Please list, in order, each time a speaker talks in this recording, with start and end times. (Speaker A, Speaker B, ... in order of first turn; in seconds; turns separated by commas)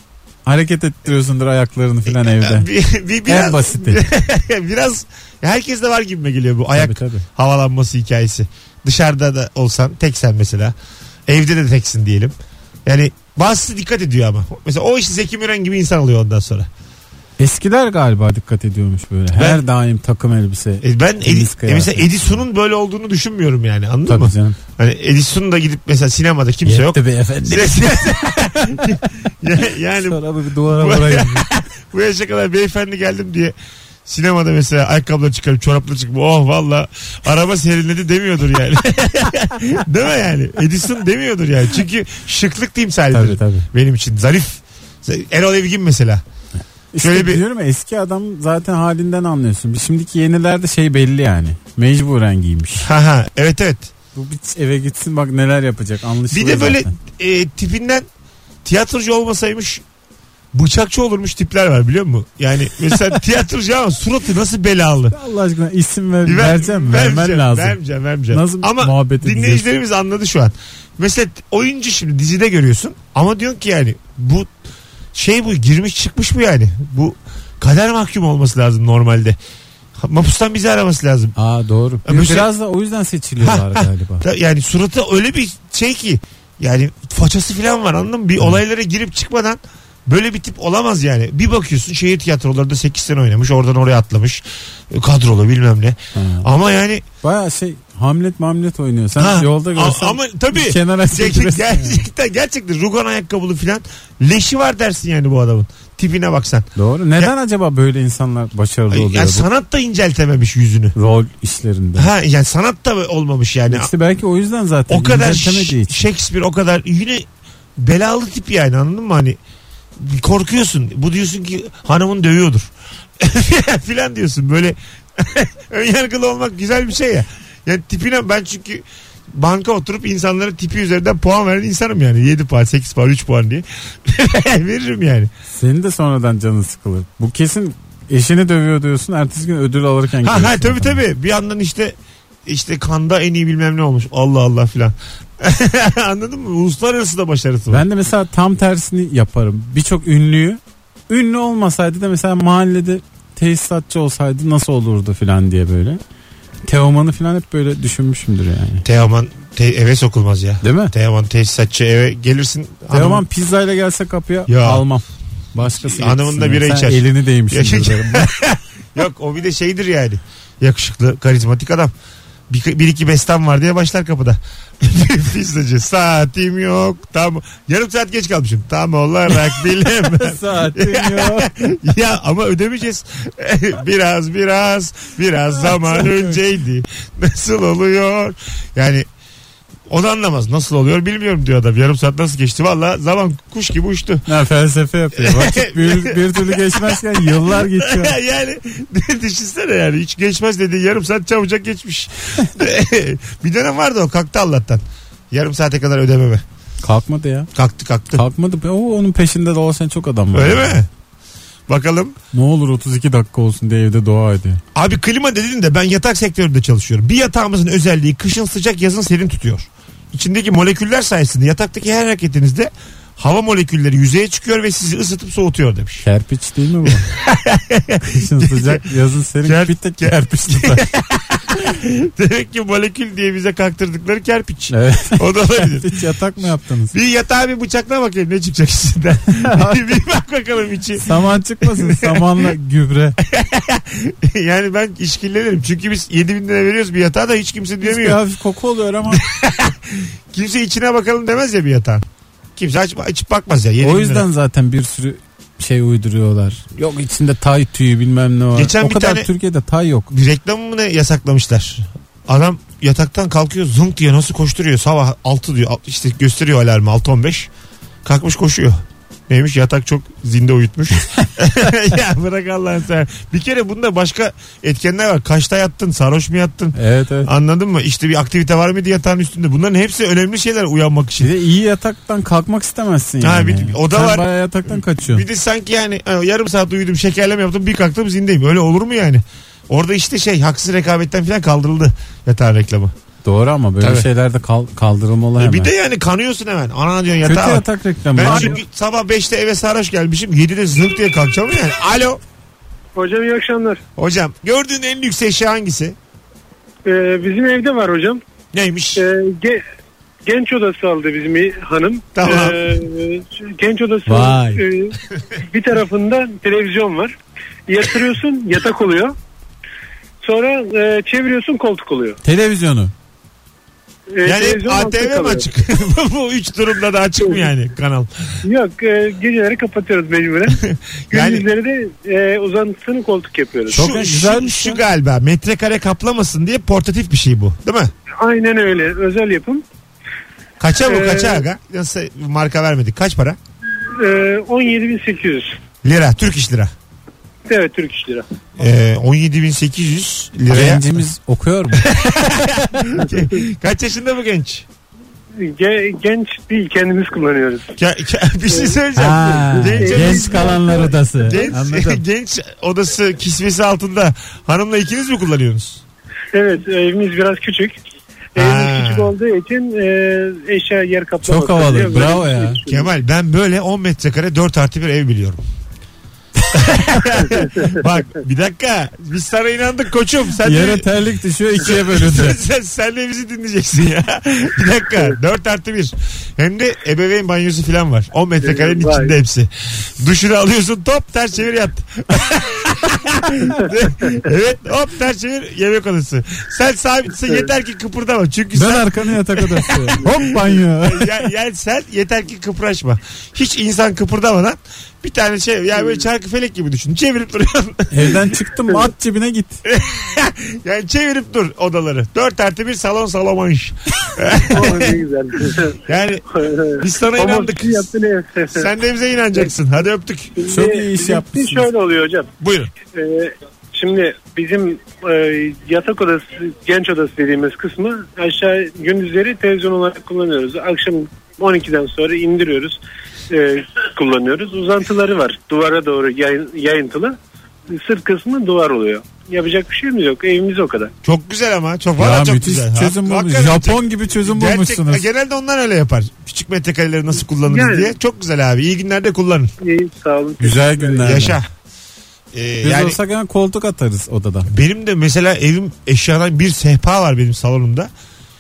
Speaker A: 0.5-2.7, Speaker B: 2.1-10.8, Speaker A: 3.3-4.0, Speaker A: 6.8-7.2, Speaker B: 11.3-12.3, Speaker B: 12.9-16.7, Speaker A: 17.4-22.4, Speaker B: 19.4-19.6, Speaker B: 20.8-33.5, Speaker A: 24.1-24.6, Speaker A: 26.7-28.9, Speaker A: 30.0-31.5, Speaker B: 34.1-46.2, Speaker A: 43.1-43.7, Speaker A: 46.9-52.9, Speaker B: 47.0-47.4, Speaker B: 52.8-53.9, Speaker A: 54.1-56.9, Speaker B: 56.3-58.1, Speaker B: 58.6-59.8, Speaker B: 60.5-65.2, Speaker A: 65.1-67.8, Speaker B: 66.2-74.5, Speaker A: 68.3-69.7, Speaker B: 75.1-79.4, Speaker B: 80.0-81.3, Speaker A: 81.4-84.2, Speaker B: 82.0-82.5, Speaker B: 83.4-97.0, Speaker A: 96.2-96.5, Speaker A: 97.2-102.1, Speaker B: 99.2-107.3, Speaker A: 106.8-109.5, Speaker B: 108.9-110.9, Speaker A: 111.0-112.1, Speaker B: 112.0-113.9, Speaker A: 113.7-116.0, Speaker B: 114.9-117.3, Speaker B: 117.8-119.4, Speaker B: 120.0-135.3, Speaker A: 135.5-141.0, Speaker B: 140.2-141.9, Speaker B: 142.5-147.8, Speaker A: 147.7-156.0, Speaker A: 156.7-158.8, Speaker B: 158.8-163.2, Speaker A: 160.6-160.9, Speaker A: 162.9-168.3, Speaker B: 164.5-164.8, Speaker B: 165.8-171.9, Speaker B: 172.5-189.1, Speaker A: 180.0-181.5, Speaker A: 185.6-186.4, Speaker B: 189.9-194.3, Speaker A: 194.3-198.2, Speaker B: 195.2-206.4, Speaker A: 206.8-207.5, Speaker B: 207.6-208.2, Speaker A: 208.1-210.8, Speaker B: 210.3-210.9, Speaker B: 211.7-212.2, Speaker A: 212.3-214.6, Speaker B: 214.8-226.1, Speaker A: 226.0-227.1, Speaker B: 226.9-228.8, Speaker A: 228.0-230.9, Speaker B: 229.4-236.0, Speaker A: 234.7-236.9, Speaker B: 236.9-241.1, Speaker A: 239.4-239.8, Speaker A: 241.0-243.2, Speaker B: 241.6-242.5, Speaker B: 243.2-248.2, Speaker A: 247.8-249.2, Speaker B: 249.1-252.1, Speaker B: 252.6-254.3, Speaker A: 253.8-260.1, Speaker B: 258.5-259.3, Speaker B: 260.1-267.5, Speaker B: 268.1-281.3, Speaker A: 276.8-277.3, Speaker A: 281.2-285.2, Speaker B: 283.2-292.9, Speaker A: 293.2-295.7, Speaker B: 293.8-294.1, Speaker B: 295.4-302.2, Speaker A: 297.2-298.6, Speaker C: 298.2-298.5, Speaker C: 302.9-303.8, Speaker B: 304.0-306.0, Speaker C: 306.9-308.2, Speaker B: 308.5-309.0, Speaker C: 309.0-309.6, Speaker C: 310.3-317.1, Speaker B: 312.2-312.8, Speaker A: 314.1-314.6, Speaker C: 317.7-319.1, Speaker C: 320.2-322.2, Speaker A: 322.2-322.9, Speaker C: 324.1-325.5, Speaker B: 324.2-328.1, Speaker C: 328.4-333.9, Speaker B: 330.7-331.5, Speaker B: 333.7-337.9, Speaker A: 333.7-334.8, Speaker C: 338.2-339.6, Speaker B: 340.6-343.4, Speaker C: 340.9-341.4, Speaker C: 344.0-345.5, Speaker B: 345.8-346.7, Speaker C: 347.5-348.3, Speaker B: 348.6-351.0, Speaker A: 350.5-351.9, Speaker B: 351.8-354.7, Speaker C: 355.4-357.7, Speaker B: 357.8-365.8, Speaker C: 358.5-358.8, Speaker A: 359.0-362.0, Speaker C: 359.5-361.5, Speaker C: 366.3-367.8, Speaker C: 368.4-372.9, Speaker B: 368.4-369.1, Speaker A: 371.2-372.6, Speaker B: 372.7-375.4, Speaker B: 376.5-380.9, Speaker C: 377.4-377.7, Speaker A: 380.4-382.4, Speaker B: 381.6-400.3, Speaker C: 388.4-389.1, Speaker A: 398.5-401.2, Speaker B: 400.8-408.2, Speaker A: 407.9-409.6, Speaker B: 409.7-415.0, Speaker C: 414.5-415.8, Speaker B: 415.9-416.2, Speaker C: 416.4-418.7, Speaker B: 416.8-417.9, Speaker B: 418.5-420.3, Speaker C: 420.4-422.3, Speaker A: 420.5-421.7, Speaker B: 422.4-422.7, Speaker C: 422.9-437.2, Speaker C: 437.7-440.9, Speaker B: 441.0-449.5, Speaker A: 442.0-445.1, Speaker C: 447.5-448.0, Speaker C: 449.6-451.1, Speaker A: 450.4-451.4, Speaker B: 451.0-451.5, Speaker B: 452.3-453.0, Speaker A: 452.6-454.5, Speaker B: 454.5-457.9